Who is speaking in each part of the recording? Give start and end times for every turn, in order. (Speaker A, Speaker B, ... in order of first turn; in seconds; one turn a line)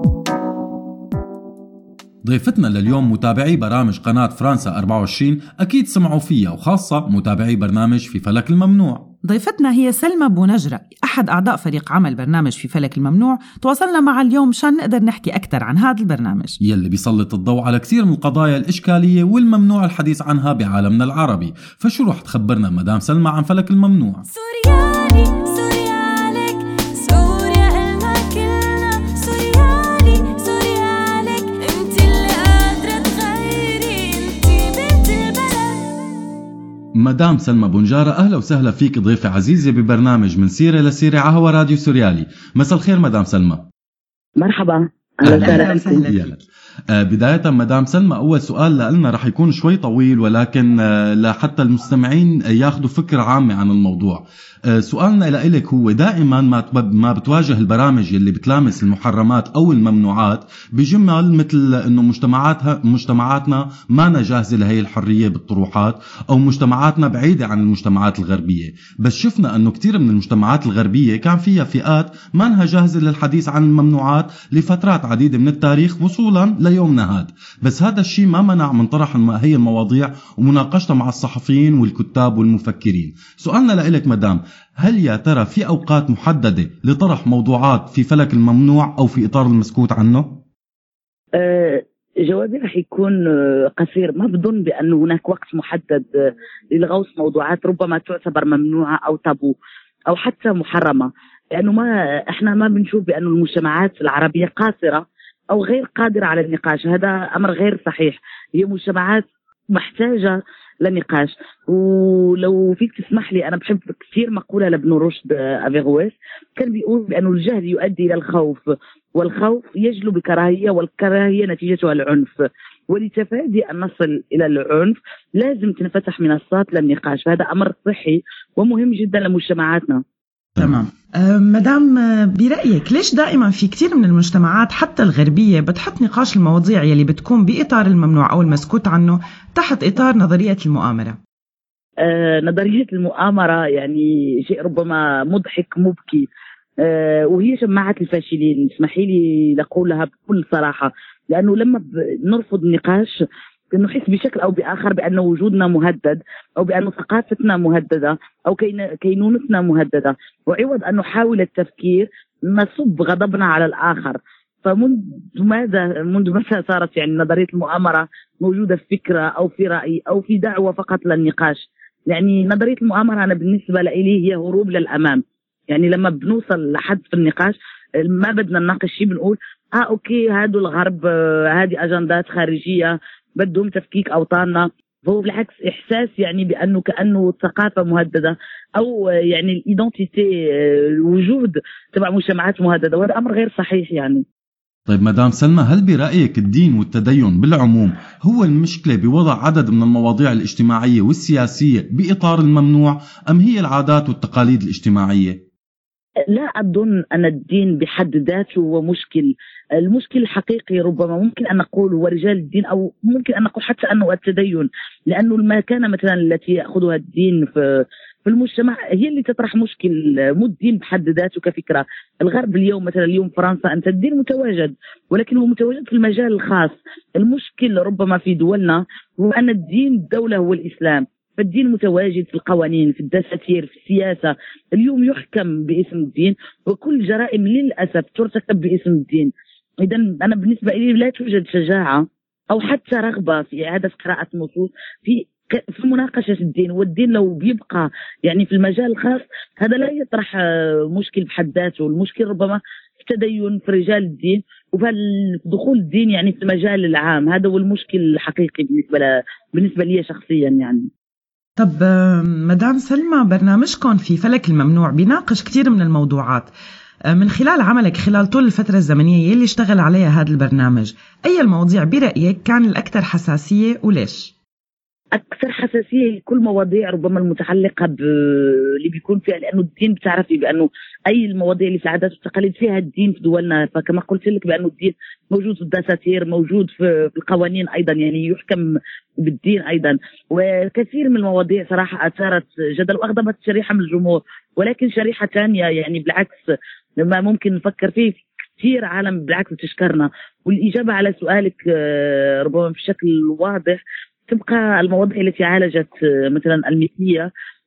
Speaker A: 2.2-9.1
Speaker B: 9.2-16.6
Speaker A: 16.6-24.3
Speaker C: 24.4-36.1
Speaker A: 37.0-43.6
Speaker D: 44.4-46.1
Speaker A: 45.2-46.3
Speaker B: 45.3-46.4
Speaker A: 46.9-54.2
Speaker A: 54.8-90.4
Speaker D: 91.4-96.1
Speaker D: 96.8-99.6
Speaker D: 100.1-118.6
Speaker D: 119.2-122.4
Speaker D: 122.9-130.0
Speaker B: 130.6-141.2
Speaker D: 142.1-146.3
Speaker D: 146.8-153.2
Speaker D: 153.7-194.2
Speaker A: 194.9-205.4
Speaker D: 206.3-239.3
Speaker D: 239.8-250.4
Speaker D: 250.9-260.9
Speaker B: 261.6-266.5
Speaker B: 267.1-274.3
Speaker D: 275.1-288.7
Speaker D: 289.2-296.4
Speaker D: 297.0-307.3